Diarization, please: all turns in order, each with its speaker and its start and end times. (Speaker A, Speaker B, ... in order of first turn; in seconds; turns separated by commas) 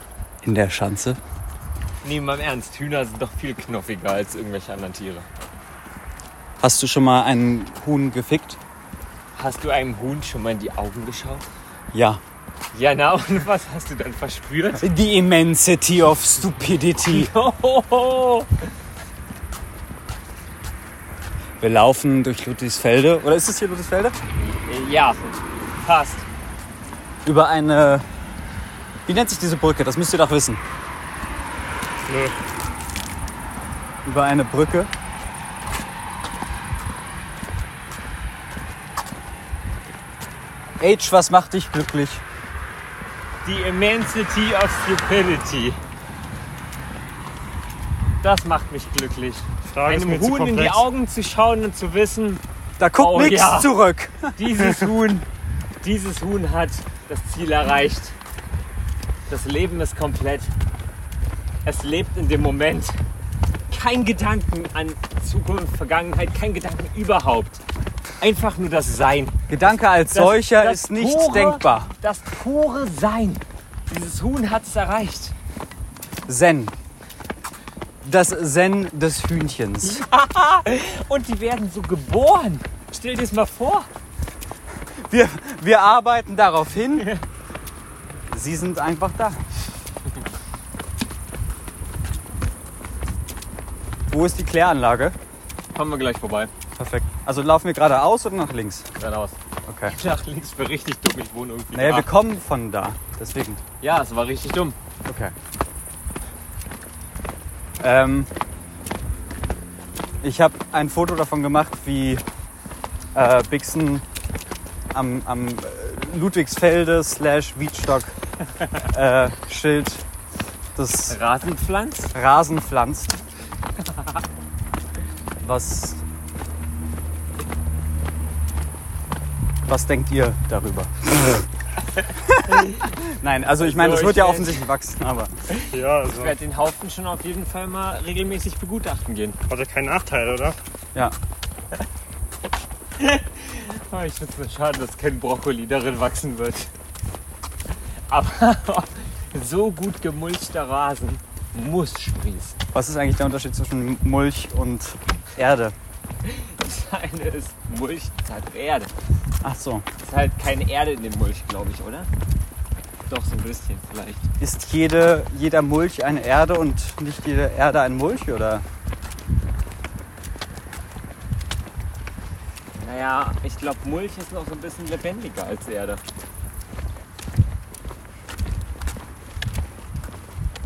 Speaker A: 0.4-1.2, Speaker B: 2.0-5.3, Speaker A: 6.6-8.6, Speaker B: 9.3-11.5, Speaker A: 11.9-12.2, Speaker B: 12.7-14.8, Speaker A: 14.8-17.3, Speaker B: 17.0-18.6, Speaker A: 21.6-24.1, Speaker B: 24.6-25.3, Speaker B: 25.8-26.2, Speaker A: 27.2-28.0, Speaker A: 29.1-30.6, Speaker C: 32.0-32.4, Speaker A: 34.0-34.9, Speaker A: 40.8-42.2, Speaker B: 43.4-45.8, Speaker B: 48.2-52.4, Speaker C: 49.7-50.8, Speaker A: 52.8-54.3, Speaker B: 53.0-53.7, Speaker B: 54.4-55.3, Speaker B: 55.8-58.1, Speaker B: 59.3-60.5, Speaker B: 61.6-63.0, Speaker B: 63.7-67.6, Speaker B: 68.2-69.4, Speaker A: 69.5-71.9, Speaker B: 70.1-75.3, Speaker A: 76.3-76.7, Speaker A: 78.0-80.0, Speaker B: 79.8-83.9, Speaker A: 85.0-87.1, Speaker A: 88.3-89.4, Speaker A: 94.1-95.2, Speaker B: 95.7-96.5, Speaker A: 96.8-98.9, Speaker B: 99.0-102.1, Speaker A: 99.7-99.9, Speaker A: 101.7-103.6, Speaker B: 103.8-104.8, Speaker A: 105.0-105.3, Speaker A: 107.8-108.3, Speaker A: 110.2-112.2, Speaker A: 113.1-114.0, Speaker A: 114.9-118.1, Speaker A: 118.8-120.0, Speaker A: 120.8-121.2, Speaker B: 121.1-122.1, Speaker A: 122.1-123.1, Speaker B: 123.8-124.2, Speaker A: 125.4-126.0, Speaker A: 129.7-131.4, Speaker A: 132.2-135.3, Speaker B: 132.5-132.9, Speaker B: 133.6-134.6, Speaker B: 135.5-139.4, Speaker C: 135.7-136.3, Speaker C: 139.5-140.6, Speaker B: 143.0-146.7, Speaker B: 148.1-152.6, Speaker A: 152.7-155.7, Speaker B: 156.2-158.9, Speaker A: 159.4-159.8, Speaker B: 160.0-162.1, Speaker B: 163.1-164.3, Speaker A: 164.4-168.6, Speaker B: 172.8-176.0